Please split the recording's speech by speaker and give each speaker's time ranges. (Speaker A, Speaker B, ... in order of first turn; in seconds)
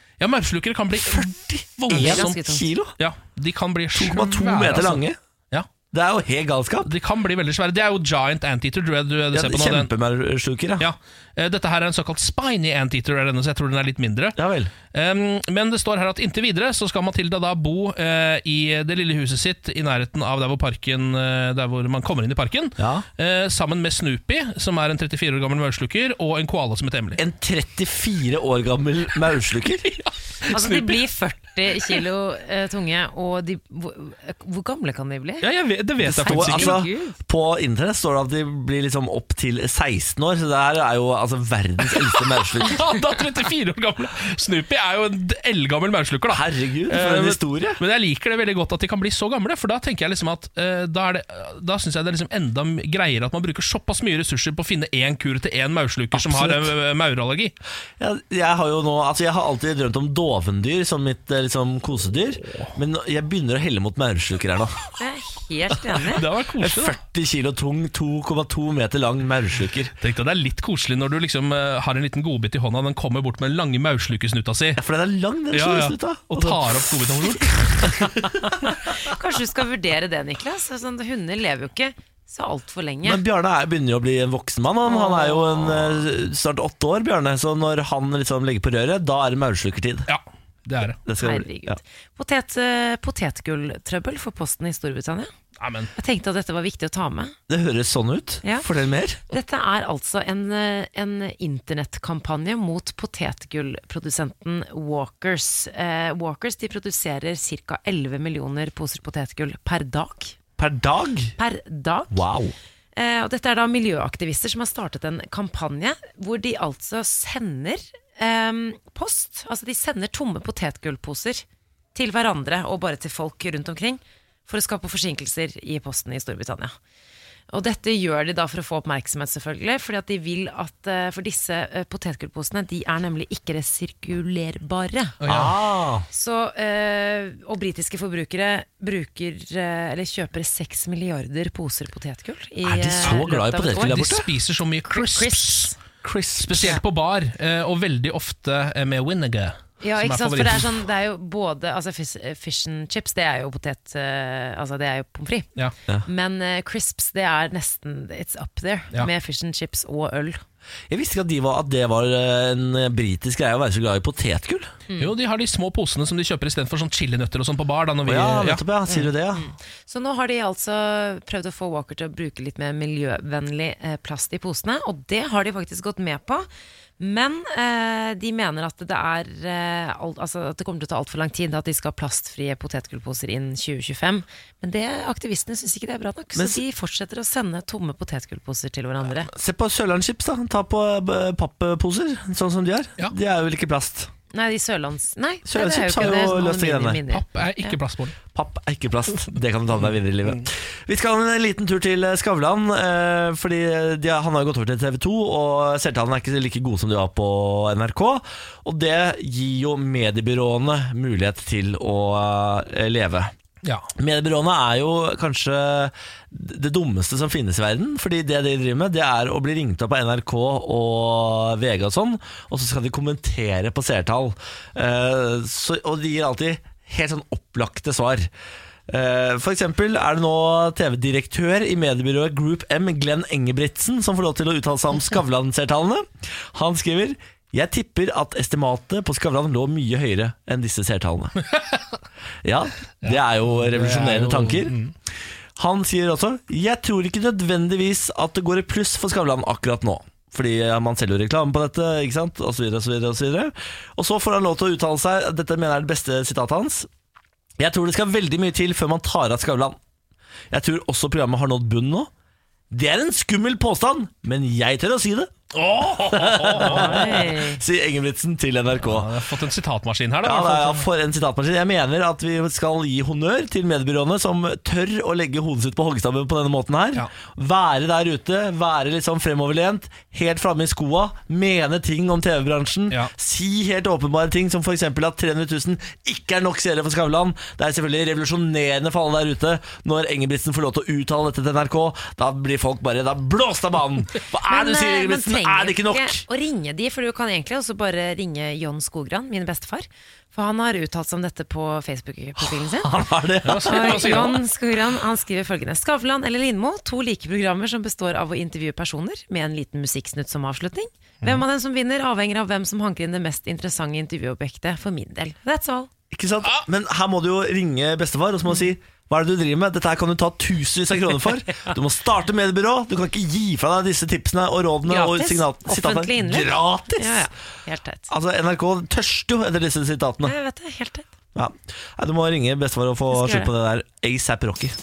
Speaker A: 0.2-2.4, 3.0-5.7, 6.8-9.9, 10.8-14.4, 14.9-27.2, 30.4-31.0, 35.4-36.9, 42.5-57.5, 66.1-67.0, 70.0-74.8, 75.5-78.0, 90.1-91.0, 95.6-95.9, 135.2-135.5, 143.8-145.7, 146.4-150.7, 165.0-168.6, 197.1-198.1, 213.6-213.9, 241.5-241.9, 243.0-244.9, 265.5-267.2, 268.7-270.9, 303.4-304.4
Speaker B: 0.9-2.9, 3.9-5.2, 5.9-6.9, 9.3-10.9, 14.3-14.7, 22.8-23.1, 27.2-30.0, 36.0-42.8, 46.3-47.8, 56.1-56.7, 58.0-64.8, 66.6-69.9, 74.8-76.6, 78.0-78.3, 83.0-90.1, 91.0-91.8, 97.5-99.2, 110.6-111.3, 112.1-112.5, 135.3-136.1, 142.6-144.3, 146.0-146.8, 160.9-164.7, 168.1-169.5, 189.2-194.1, 195.5-197.0, 198.3-213.3, 213.9-228.3, 228.9-241.4, 242.4-244.8, 245.6-256.9, 257.6-259.8, 260.5-262.1, 262.7-265.3, 266.0-269.1, 270.2-296.2, 302.4-304.3, 316.1-327.2, 328.1-330.3, 331.3-334.7
Speaker C: 1.9-2.7, 30.5-35.5, 36.2-37.2, 65.0-66.2, 79.0-83.2, 84.8-85.9, 91.2-95.3, 96.0-97.3, 99.3-110.4, 111.4-112.2, 113.0-126.7, 127.5-135.2, 136.1-144.0, 144.9-145.8, 149.8-155.5, 156.1-160.4, 164.9-165.1, 168.9-176.5, 177.0-189.3, 194.3-197.8, 266.6-267.6, 294.5-302.9, 303.6-315.9, 324.9-328.1, 330.2-331.1, 333.1-333.5